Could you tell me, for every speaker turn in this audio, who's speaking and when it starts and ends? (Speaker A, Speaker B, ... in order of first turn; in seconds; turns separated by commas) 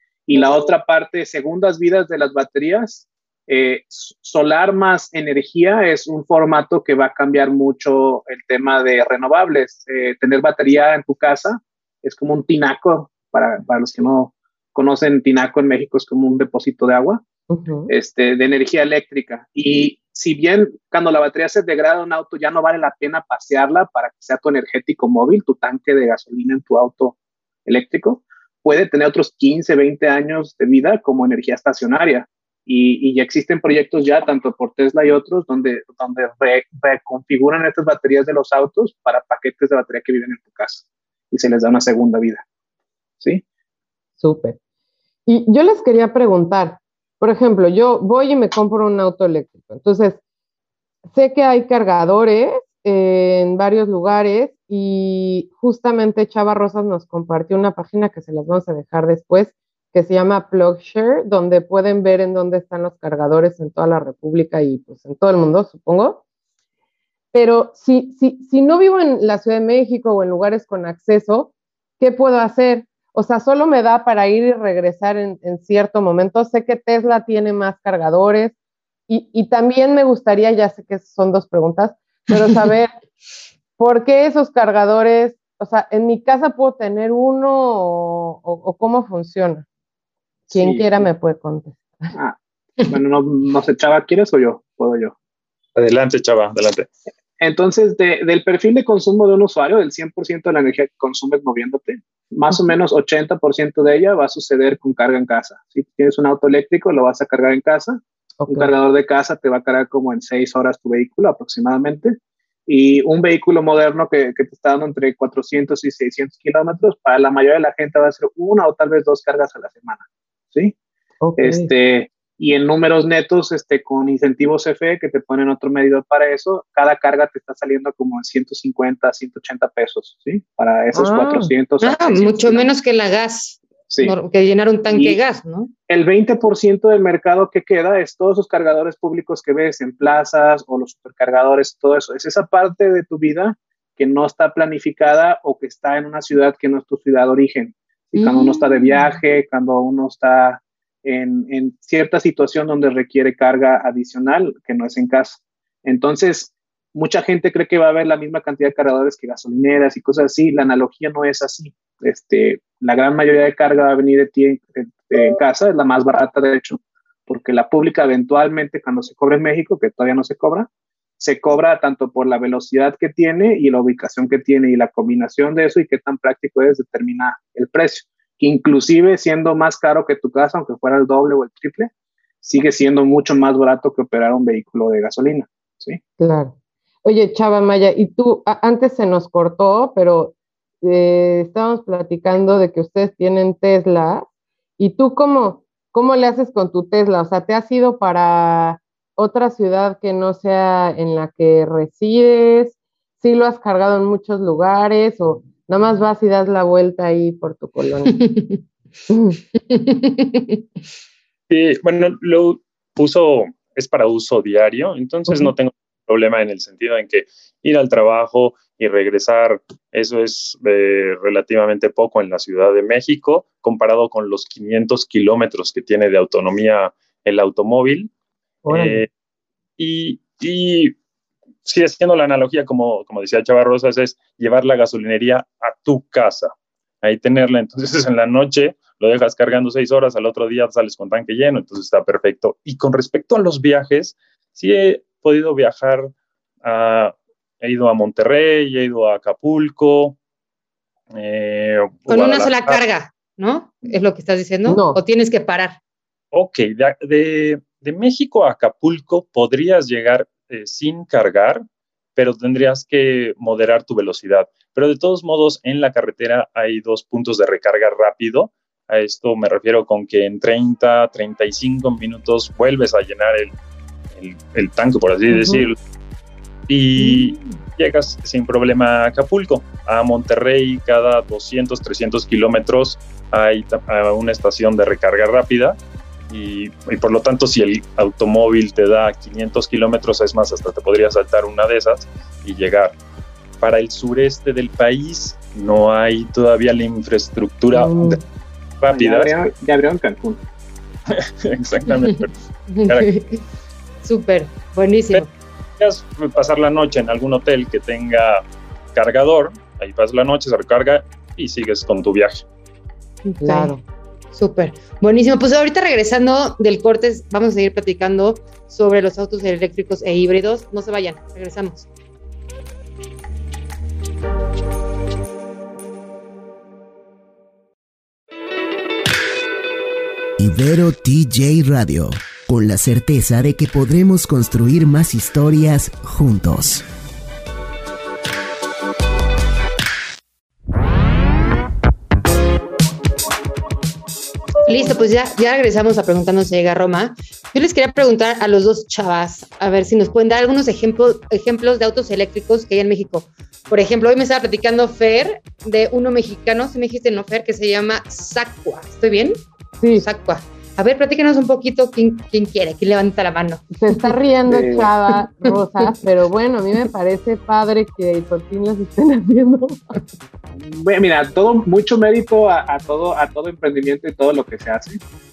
Speaker A: 0.3-17.2, Speaker B: 17.5-17.9, Speaker A: 17.9-42.4, Speaker B: 44.2-44.6, Speaker B: 45.3-50.2, Speaker B: 51.1-66.2, Speaker B: 67.3-78.5, Speaker B: 79.1-82.9, Speaker B: 83.8-89.7, Speaker A: 90.5-91.1, Speaker B: 90.5-92.1, Speaker A: 92.1-95.1, Speaker C: 95.8-96.9, Speaker A: 97.4-120.7, Speaker B: 108.4-108.7, Speaker B: 121.2-121.7, Speaker A: 121.4-132.7, Speaker B: 130.9-131.5, Speaker D: 131.8-135.7, Speaker A: 133.9-134.2, Speaker A: 134.9-135.2, Speaker A: 135.9-170.7, Speaker A: 171.2-181.9, Speaker A: 182.4-186.0, Speaker B: 186.2-194.3, Speaker B: 194.8-208.2, Speaker D: 208.1-208.6, Speaker B: 209.1-209.4, Speaker D: 209.6-210.6, Speaker C: 211.5-228.1, Speaker B: 228.7-229.1, Speaker C: 228.7-229.1, Speaker C: 229.8-231.0, Speaker C: 231.6-246.1, Speaker C: 246.6-250.2, Speaker C: 251.1-252.8, Speaker D: 252.1-255.8, Speaker B: 254.7-255.0, Speaker C: 256.3-261.6, Speaker C: 262.2-273.6, Speaker C: 274.1-275.8, Speaker B: 275.3-275.6, Speaker C: 276.7-285.8, Speaker C: 286.3-293.0, Speaker C: 293.6-298.2, Speaker B: 297.7-298.2, Speaker C: 298.8-299.3, Speaker A: 298.9-300.4, Speaker C: 301.1-302.3, Speaker D: 302.7-303.4, Speaker C: 302.9-303.1, Speaker D: 304.0-305.3, Speaker C: 305.8-312.4, Speaker D: 313.2-313.7, Speaker B: 313.4-313.8, Speaker D: 314.3-321.9, Speaker E: 330.4-336.8, Speaker D: 344.7-359.4, Speaker B: 359.8-360.1, Speaker D: 360.0-363.6, Speaker B: 363.7-369.8, Speaker A: 364.5-364.9, Speaker A: 370.6-375.0